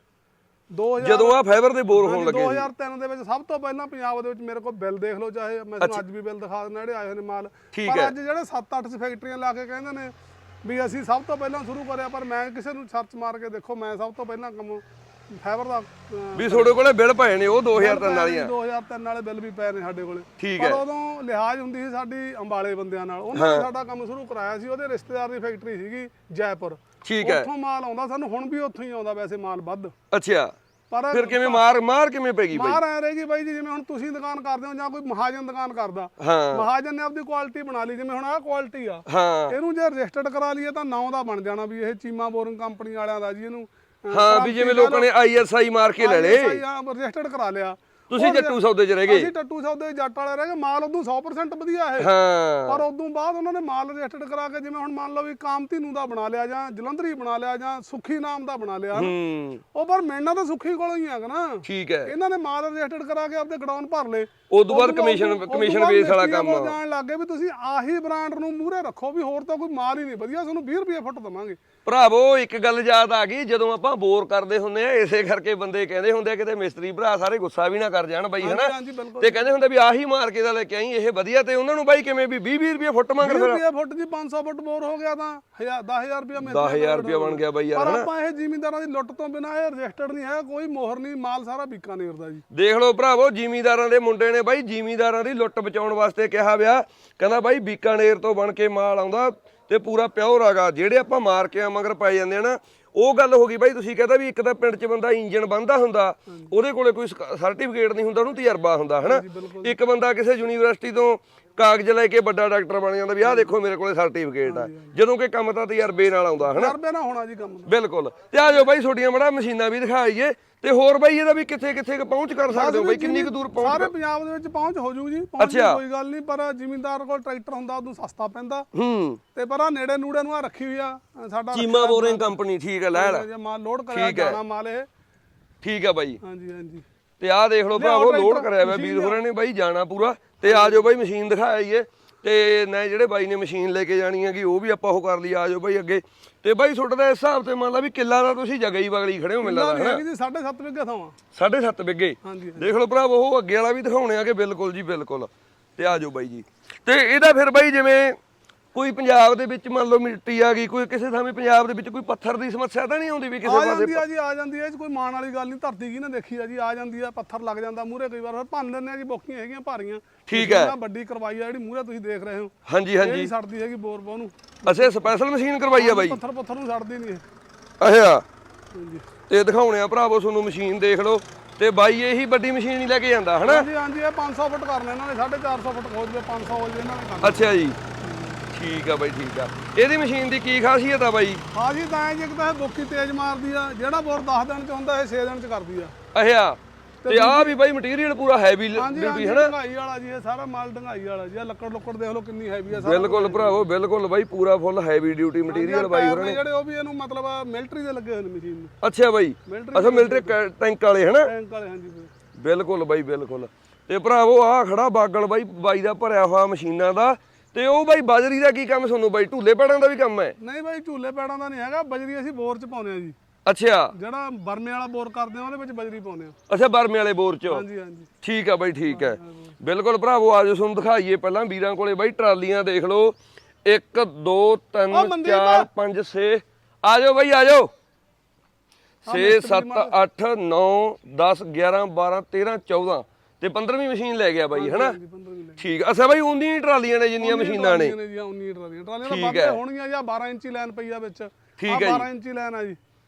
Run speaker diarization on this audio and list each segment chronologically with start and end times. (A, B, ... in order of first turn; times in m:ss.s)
0:00.7-0:01.4 A
0:01.0-0:02.7 B
0:02.0-0:10.1 A
0:07.7-0:08.1 B
0:10.6-0:16.7 A
0:16.3-0:18.5 B
0:17.7-0:29.9 A
0:20.4-0:20.8 B
0:23.3-0:23.7 B
0:27.0-0:27.5 B
0:30.1-0:30.5 B
0:30.9-0:31.6 A
0:31.1-0:32.8 B
0:32.5-0:45.1 A
0:36.2-0:36.6 B
0:39.1-0:39.5 B
0:44.1-0:46.6 B
0:46.0-0:52.1 A
0:48.1-0:49.3 B
0:52.0-0:52.8 B
0:52.6-0:59.1 A
0:58.9-0:59.6 B
0:59.7-1:11.6 A
1:01.6-1:02.1 B
1:04.5-1:06.8 B
1:11.8-1:23.6 B
1:18.4-1:19.4 A
1:23.2-1:32.4 A
1:26.4-1:28.1 B
1:32.5-1:56.7 B
1:49.0-1:49.7 A
1:53.2-1:53.5 A
1:54.4-1:54.9 A
1:56.4-1:57.7 A
1:57.7-2:03.9 B
2:02.5-2:08.6 A
2:05.4-2:05.8 B
2:08.7-2:09.2 B
2:09.3-2:12.3 A
2:11.5-2:13.3 B
2:12.9-2:14.9 A
2:13.9-2:14.4 B
2:15.6-2:16.2 B
2:16.2-2:16.8 A
2:17.2-2:30.0 B
2:17.7-2:19.2 A
2:20.4-2:20.8 A
2:29.4-2:31.2 A
2:31.3-2:38.2 B
2:32.2-2:32.7 A
2:38.7-2:44.0 B
2:43.4-2:55.0 A
2:50.2-2:50.7 B
2:52.7-2:53.3 B
2:54.6-2:56.2 B
2:55.8-2:57.2 A
2:57.8-2:58.2 B
2:58.7-2:59.0 A
2:59.3-3:03.7 B
3:03.4-3:07.4 A
3:07.2-3:07.8 B
3:08.0-3:08.4 A
3:08.5-3:11.4 B
3:11.5-3:15.9 A
3:16.1-3:19.5 B
3:17.0-3:17.5 A
3:18.7-3:23.6 A
3:22.7-3:26.4 B
3:25.5-3:28.7 A
3:28.8-3:31.3 B
3:29.5-3:30.4 A
3:31.2-3:32.1 A
3:32.4-3:40.3 B
3:40.4-3:43.2 A
3:43.4-3:43.9 B
3:43.9-3:46.4 A
3:46.5-3:47.6 B
3:47.5-3:48.1 A
3:48.2-3:57.7 B
3:48.9-3:49.5 A
3:54.9-3:55.7 A
3:59.0-4:05.0 B
3:59.1-3:59.9 A
4:04.5-4:05.6 A
4:05.6-4:07.9 B
4:07.2-4:12.8 A
4:09.0-4:09.6 B
4:11.6-4:12.1 B